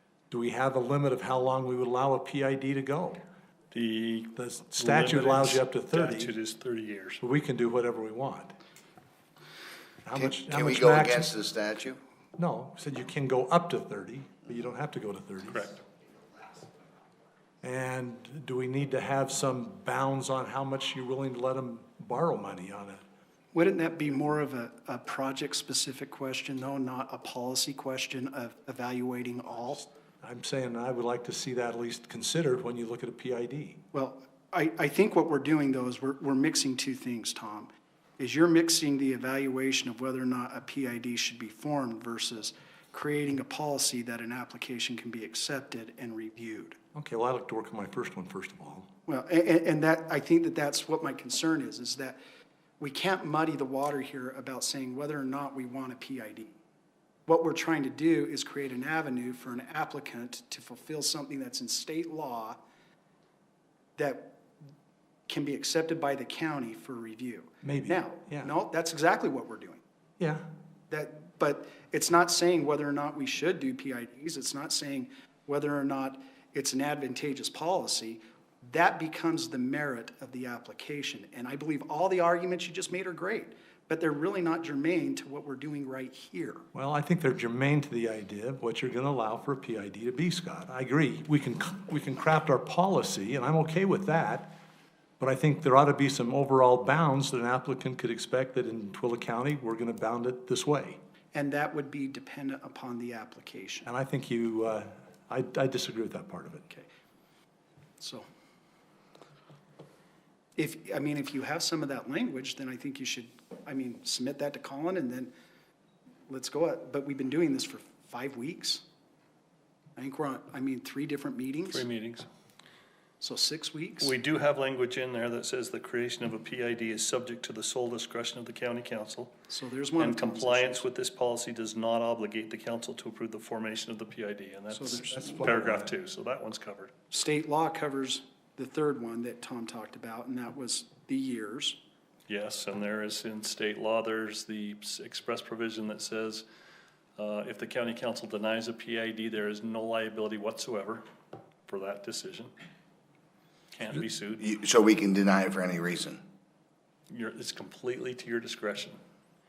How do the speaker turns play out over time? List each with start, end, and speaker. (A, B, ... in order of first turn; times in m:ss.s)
0:00.3-0:03.2 A
0:03.7-0:07.2 B
0:04.4-0:06.3 A
0:07.2-0:08.6 A
0:10.0-0:11.3 A
0:10.2-0:12.0 C
0:12.4-0:15.7 A
0:17.6-0:23.0 A
0:23.5-0:29.9 D
0:30.2-0:33.8 A
0:33.9-0:37.7 D
0:38.2-0:46.8 D
0:46.9-0:48.9 A
0:49.1-0:52.2 D
0:52.8-0:56.6 D
0:57.3-1:02.6 D
1:04.0-1:04.4 D
1:05.3-1:09.8 D
1:07.6-1:08.5 A
1:10.2-1:10.5 A
1:10.9-1:26.6 D
1:26.7-1:34.6 A
1:35.2-1:41.0 A
1:41.3-1:43.9 D
1:43.9-1:46.7 A
1:48.0-1:48.3 D
1:50.6-1:55.3 D
1:56.3-1:58.8 D
2:00.0-2:01.8 D
2:01.7-2:02.3 B
2:03.2-2:04.2 D
2:04.0-2:09.3 B
2:09.5-2:10.9 D
2:10.0-2:16.9 B
2:14.7-2:15.6 D
2:15.2-2:15.8 A
2:17.1-2:21.8 D
2:22.3-2:26.4 B
2:27.2-2:31.0 B
2:31.7-2:32.5 B
2:33.7-2:34.5 B
2:34.4-2:36.2 C
2:37.1-2:39.0 B